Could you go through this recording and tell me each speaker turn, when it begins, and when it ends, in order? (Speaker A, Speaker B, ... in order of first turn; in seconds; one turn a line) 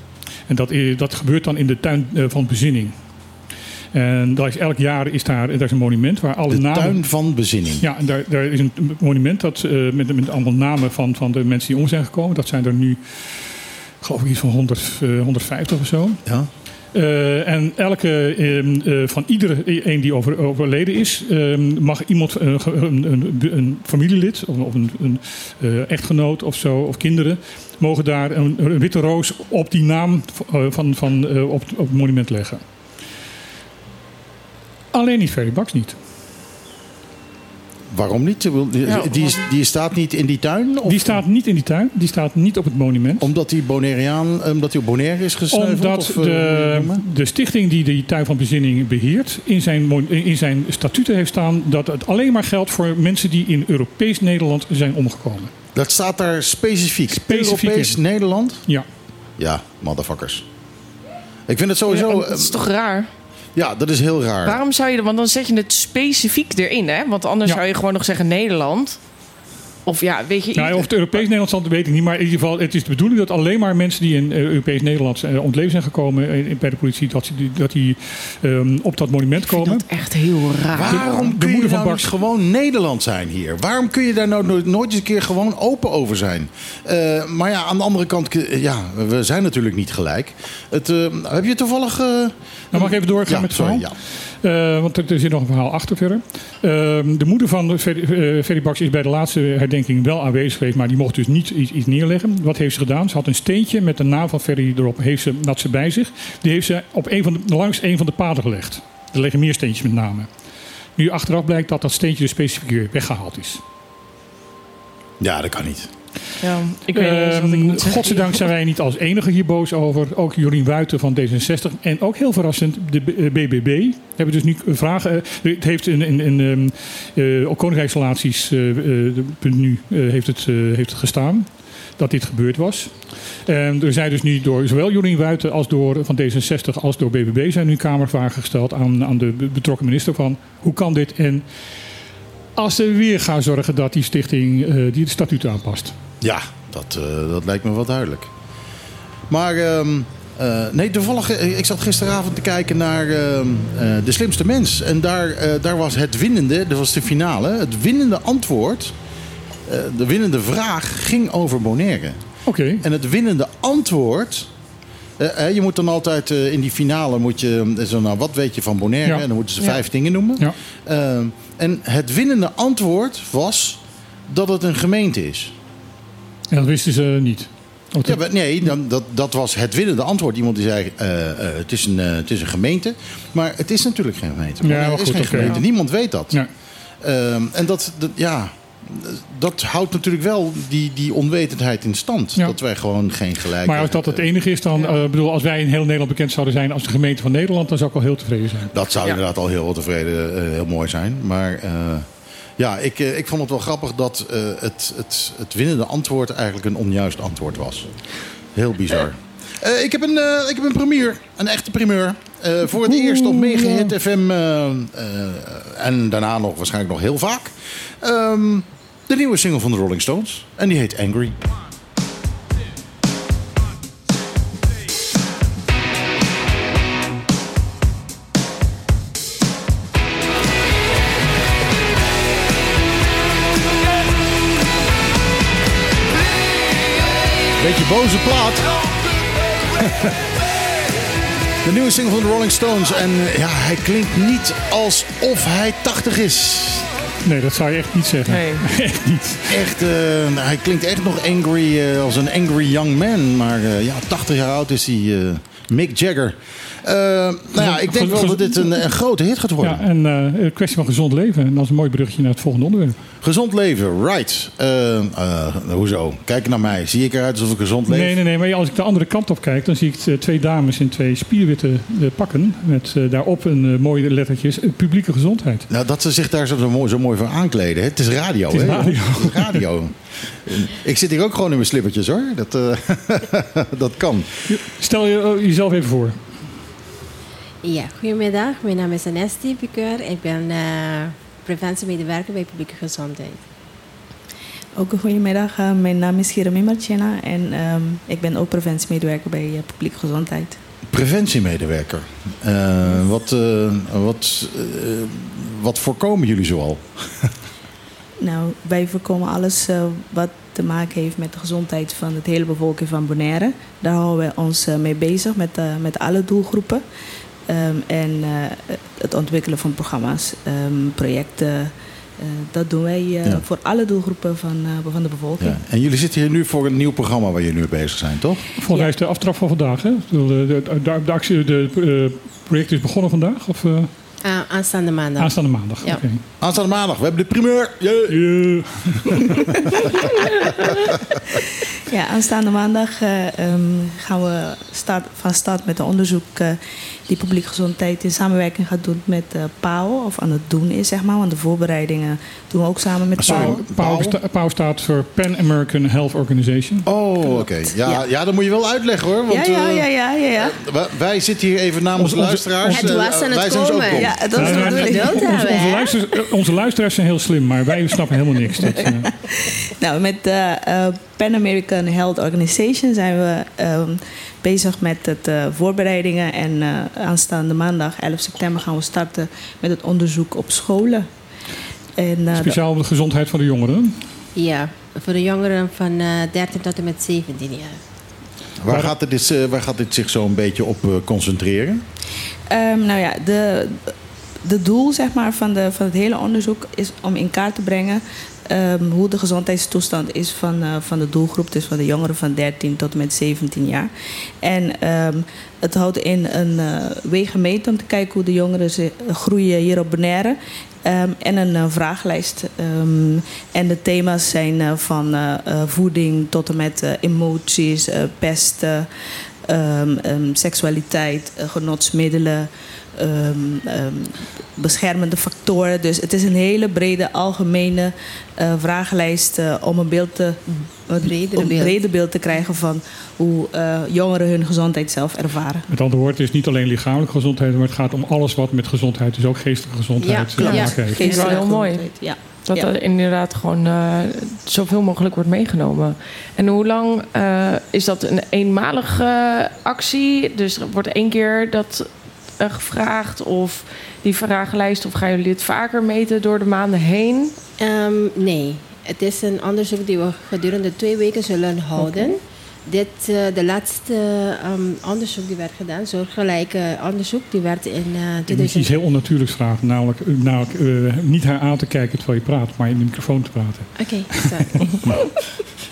Speaker A: 0.5-3.0
Speaker A: 3.9-7.0
Speaker B: 6.5-7.8
Speaker A: 7.8-16.2
Speaker A: 16.9-32.6
Speaker A: 34.9-36.0
Speaker B: 37.9-41.2
Speaker C: 38.9-39.4
Speaker A: 40.9-43.3
Speaker B: 43.2-47.0
Speaker A: 45.5-55.5
Speaker B: 55.8-58.6
Speaker A: 57.1-58.0
Speaker B: 59.4-60.5
Speaker B: 61.5-62.6
Speaker C: 61.9-63.1
Speaker B: 63.5-64.6
Speaker C: 64.4-69.0
Speaker C: 69.9-71.2
Speaker A: 70.6-79.8
Speaker C: 79.5-81.3
Speaker B: 80.7-94.0
Speaker A: 80.9-82.1
Speaker A: 92.7-110.3
Speaker A: 111.0-113.6
Speaker B: 115.2-115.9
Speaker C: 116.4-118.4
Speaker A: 116.9-141.4
Speaker A: 142.6-145.9
Speaker B: 146.2-148.3
Speaker B: 149.3-158.9
Speaker B: 159.7-162.2
Speaker A: 162.5-162.8
Speaker B: 162.8-164.5
Speaker B: 165.2-175.5
Speaker A: 176.5-178.2
Speaker B: 178.0-186.4
Speaker A: 184.6-185.6
Speaker B: 187.0-194.3
Speaker A: 193.6-198.7
Speaker B: 198.7-202.1
Speaker B: 202.6-207.9
Speaker B: 208.5-221.4
Speaker A: 212.8-213.9
Speaker B: 237.6-238.7
Speaker B: 239.8-240.2
Speaker B: 241.6-246.9
Speaker A: 247.2-249.6
Speaker C: 248.3-248.6
Speaker B: 249.5-259.8
Speaker A: 257.6-258.8
Speaker A: 259.6-263.0
Speaker B: 263.2-268.2
Speaker A: 267.9-275.7
Speaker B: 275.7-284.3
Speaker A: 278.5-279.6
Speaker A: 284.5-286.3
Speaker D: 287.6-293.4
Speaker E: 294.8-300.6
Speaker B: 300.9-307.3
Speaker E: 308.2-316.8
Speaker E: 317.5-325.6
Speaker B: 325.4-328.4
Speaker A: 328.6-333.9
Speaker D: 334.2-336.0
Speaker A: 335.2-336.2
Speaker B: 336.4-338.6
Speaker A: 338.1-339.4
Speaker E: 341.9-353.6
Speaker B: 353.2-354.2
Speaker A: 353.2-356.9
Speaker B: 356.9-364.2
Speaker E: 359.3-360.6
Speaker A: 361.9-362.9
Speaker D: 362.6-366.0
Speaker E: 363.9-365.6
Speaker A: 364.4-369.1
Speaker E: 369.8-381.1
Speaker E: 382.0-382.6
Speaker A: 382.4-384.0
Speaker D: 384.4-387.8
Speaker B: 388.6-391.8
Speaker A: 388.7-388.9
Speaker E: 392.5-393.9
Speaker E: 394.4-403.9
Speaker E: 404.4-418.9
Speaker E: 419.5-435.7
Speaker D: 430.5-431.8
Speaker A: 435.7-441.0
Speaker D: 440.0-441.6
Speaker E: 440.4-442.2
Speaker C: 441.0-457.3
Speaker D: 457.6-468.7
Speaker C: 461.8-462.1
Speaker A: 468.3-474.6
Speaker D: 473.8-474.9